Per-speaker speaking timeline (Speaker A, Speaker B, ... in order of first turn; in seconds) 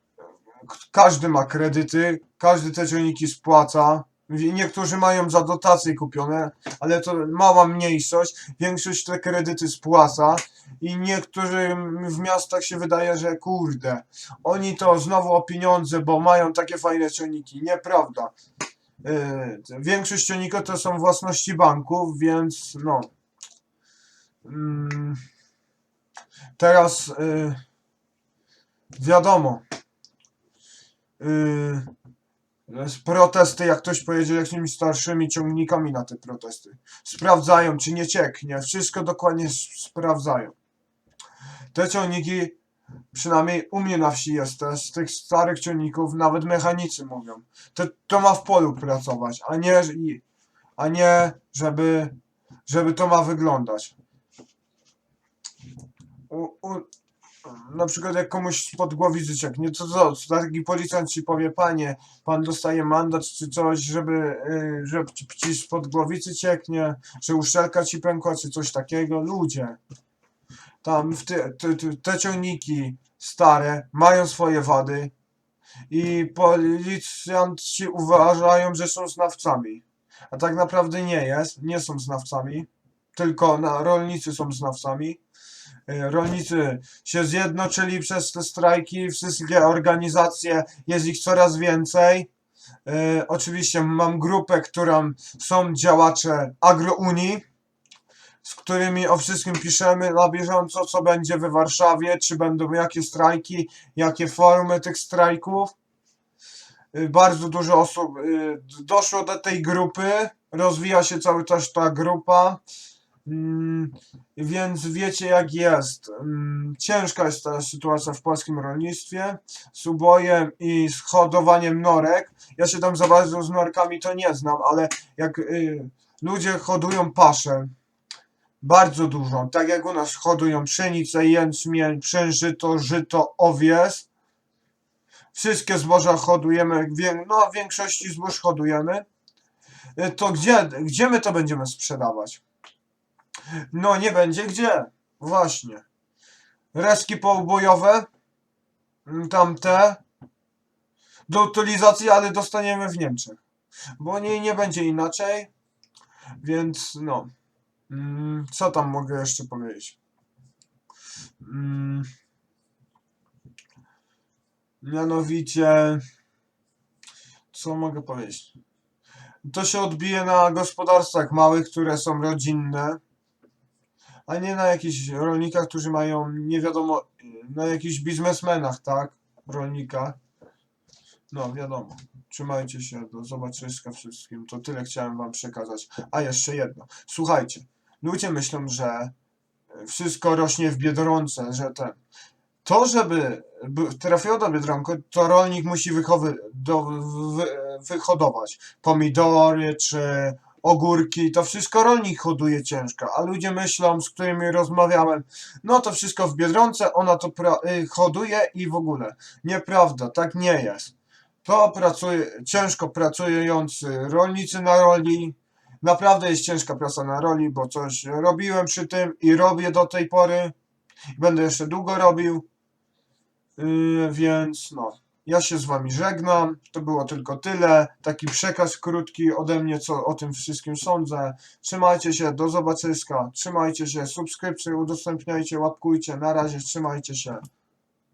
Speaker A: 0.7-18.4, 19.0-23.1, 24.4-25.2, 26.6-27.6, 28.9-29.6, 31.2-31.9, 32.7-40.5, 41.7-42.6, 43.1-50.2, 50.8-54.0, 56.3-56.9, 57.4-69.8, 70.8-75.1, 75.9-85.2, 85.9-92.3, 92.8-97.5, 98.4-105.7, 106.9-112.6, 113.2-127.7, 128.6-134.1, 135.3-139.1, 140.0-142.4, 143.7-145.8, 146.7-148.1, 149.1-150.0, 151.3-153.4, 154.0-155.5, 156.4-157.3, 157.9-160.0, 161.4-162.1, 164.8-166.0, 167.5-168.5, 169.4-173.0, 174.3-180.2, 181.3-189.1, 189.7-192.0, 192.6-220.5, 221.2-222.5, 223.6-237.4